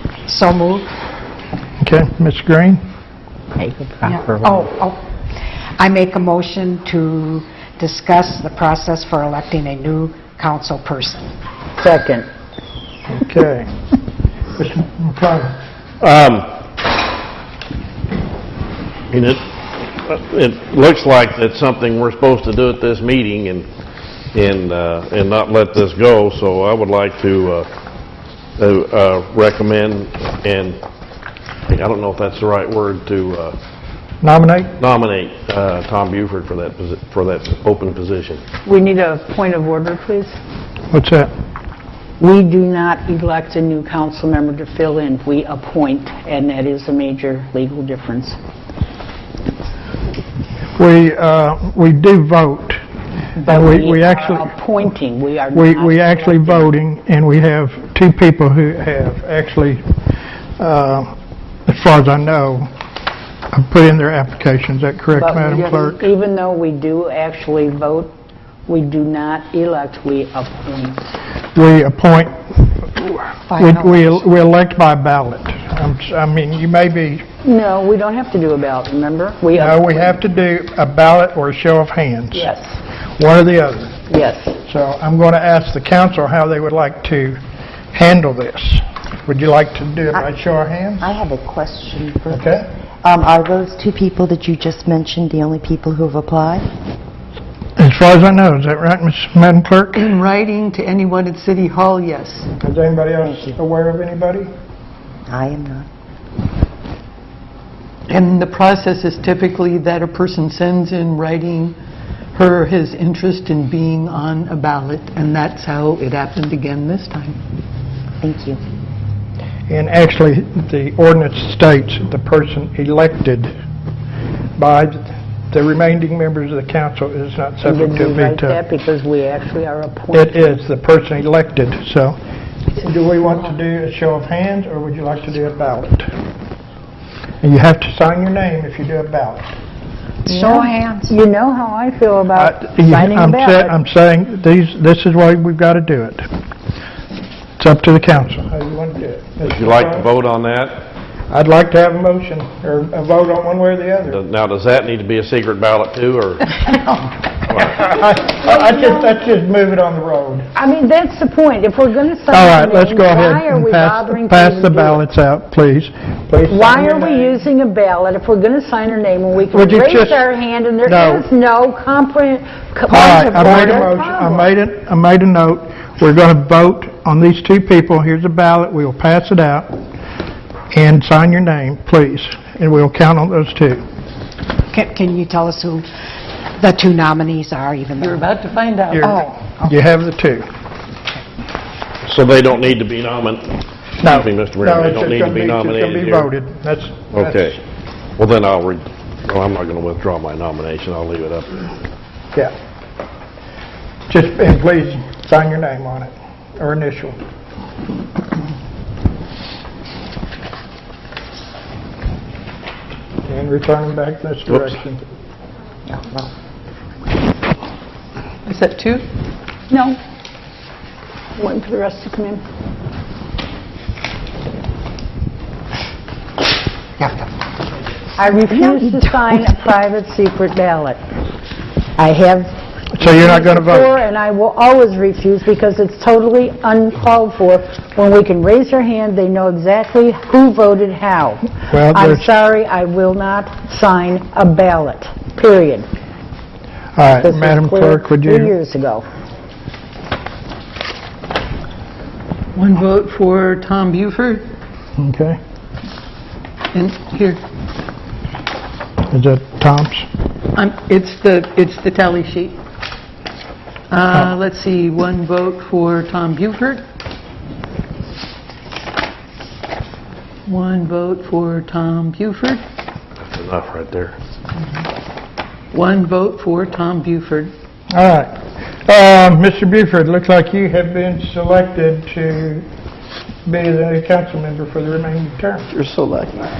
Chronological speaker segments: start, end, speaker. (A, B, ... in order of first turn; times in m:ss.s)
0:00.3-0:00.9 A
0:01.8-0:02.8 B
0:03.6-0:04.0 C
0:04.0-0:05.0 A
0:05.8-0:11.2 A
0:11.8-0:12.3 C
0:13.1-0:13.7 B
0:14.6-0:15.5 B
0:16.0-0:16.5 D
0:19.1-0:19.4 D
0:20.0-0:23.7 D
0:24.3-0:27.7 D
0:28.6-0:30.8 D
0:31.7-0:33.6 D
0:34.2-0:34.7 B
0:34.8-0:38.4 D
0:38.6-0:40.4 C
0:40.9-0:41.3 B
0:42.2-0:48.4 C
0:50.8-0:52.8 B
0:53.4-0:56.7 C
0:53.4-0:54.5 B
0:55.5-0:59.8 B
1:00.6-1:01.1 B
1:01.6-1:02.7 B
1:03.5-1:06.0 B
1:05.2-1:08.1 C
1:08.7-1:11.0 C
1:11.5-1:17.2 B
1:13.5-1:14.2 A
1:17.4-1:20.2 C
1:19.5-1:22.5 B
1:22.3-1:22.8 C
1:23.2-1:24.0 B
1:24.1-1:24.6 C
1:24.6-1:27.4 B
1:27.9-1:31.1 B
1:31.0-1:36.7 E
1:32.3-1:32.6 B
1:37.8-1:40.1 B
1:39.9-1:42.5 F
1:42.6-1:44.5 B
1:43.2-1:43.6 E
1:45.3-1:45.9 E
1:48.1-1:51.7 F
1:52.3-1:57.4 F
1:58.2-1:58.6 E
1:59.7-2:03.5 B
2:04.6-2:08.6 B
2:07.6-2:10.6 C
2:10.1-2:12.2 B
2:12.7-2:16.1 B
2:17.4-2:19.5 B
2:20.2-2:21.1 A
2:20.3-2:23.8 C
2:22.3-2:26.2 B
2:27.6-2:30.1 B
2:29.4-2:30.8 D
2:31.3-2:34.2 B
2:34.1-2:37.8 D
2:37.6-2:40.4 B
2:40.5-2:45.0 C
2:42.3-2:47.4 B
2:46.5-2:54.5 C
2:49.5-2:50.2 B
2:50.8-2:51.2 B
2:52.9-2:59.7 B
3:00.7-3:03.8 B
3:04.7-3:05.9 A
3:06.6-3:08.2 A
3:08.0-3:09.1 F
3:08.9-3:10.4 B
3:09.0-3:09.7 A
3:12.0-3:16.3 D
3:14.0-3:17.6 B
3:17.1-3:17.6 D
3:18.2-3:21.7 D
3:24.1-3:27.2 B
3:33.2-3:35.0 B
3:35.9-3:36.3 E
3:38.4-3:39.0 F
3:39.7-3:40.0 C
3:41.4-3:42.4 C
3:48.2-3:51.0 C
3:52.0-4:05.9 C
3:53.0-3:54.0 B
4:01.7-4:02.3 B
4:07.0-4:08.5 B
4:07.0-4:09.0 C
4:12.5-4:14.4 F
4:15.0-4:15.4 B
4:16.7-4:17.4 F
4:19.1-4:20.0 B
4:20.5-4:22.6 F
4:23.9-4:26.8 F
4:30.4-4:32.6 F
4:33.2-4:34.1 D
4:35.7-4:37.5 F
4:37.9-4:38.3 B
4:38.8-4:42.6 B
4:43.4-4:45.9 B